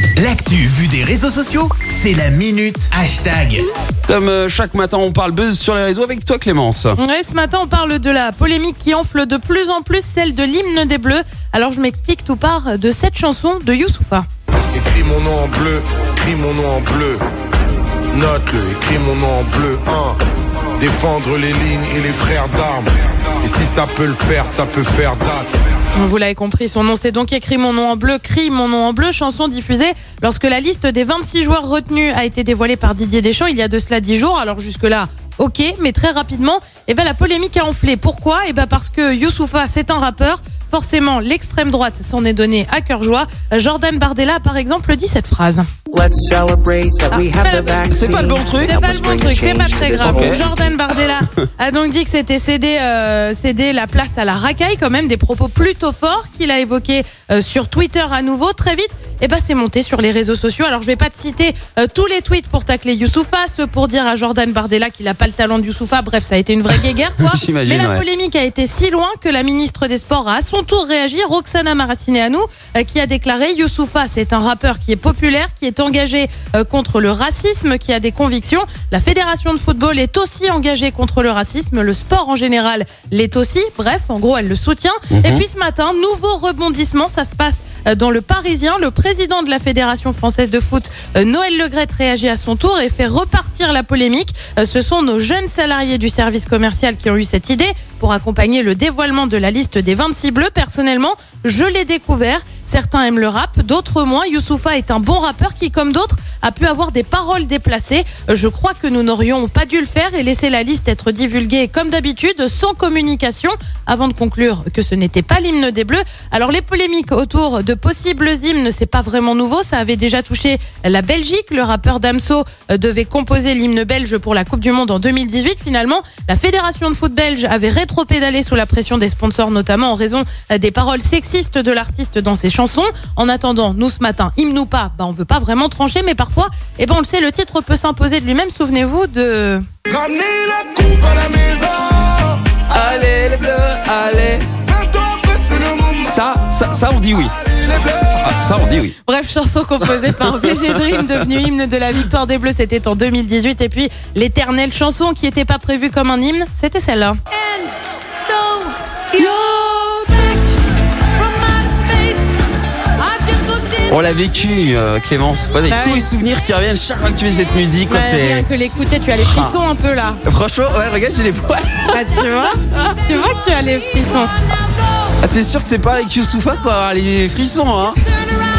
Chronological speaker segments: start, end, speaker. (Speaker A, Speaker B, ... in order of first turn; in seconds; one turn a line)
Speaker A: 0.1-3.7
Speaker B: 4.1-7.0
Speaker C: 7.0-14.2
Speaker D: 14.7-17.2
Speaker D: 18.1-20.2
Speaker D: 20.8-25.6
Speaker C: 25.9-45.7
Speaker E: 45.9-50.7
Speaker C: 47.1-139.6
Speaker B: 47.9-48.8
Speaker B: 49.9-50.5
Speaker B: 67.2-68.0
Speaker B: 85.1-85.4
Speaker D: 139.9-142.3
Speaker B: 142.7-144.4
Speaker D: 144.6-146.1
Speaker B: 146.0-147.3
Speaker D: 147.5-148.2
Speaker B: 148.2-148.9
Speaker C: 149.0-157.2
Speaker B: 150.1-150.8
Speaker C: 158.2-160.5
Speaker C: 161.3-162.1
Speaker C: 163.2-163.7
Speaker B: 163.9-168.5
Speaker C: 165.7-166.1
Speaker C: 167.9-170.2
Speaker B: 169.2-169.6
Speaker B: 170.2-172.1
Speaker C: 171.9-174.3
Speaker B: 175.2-178.0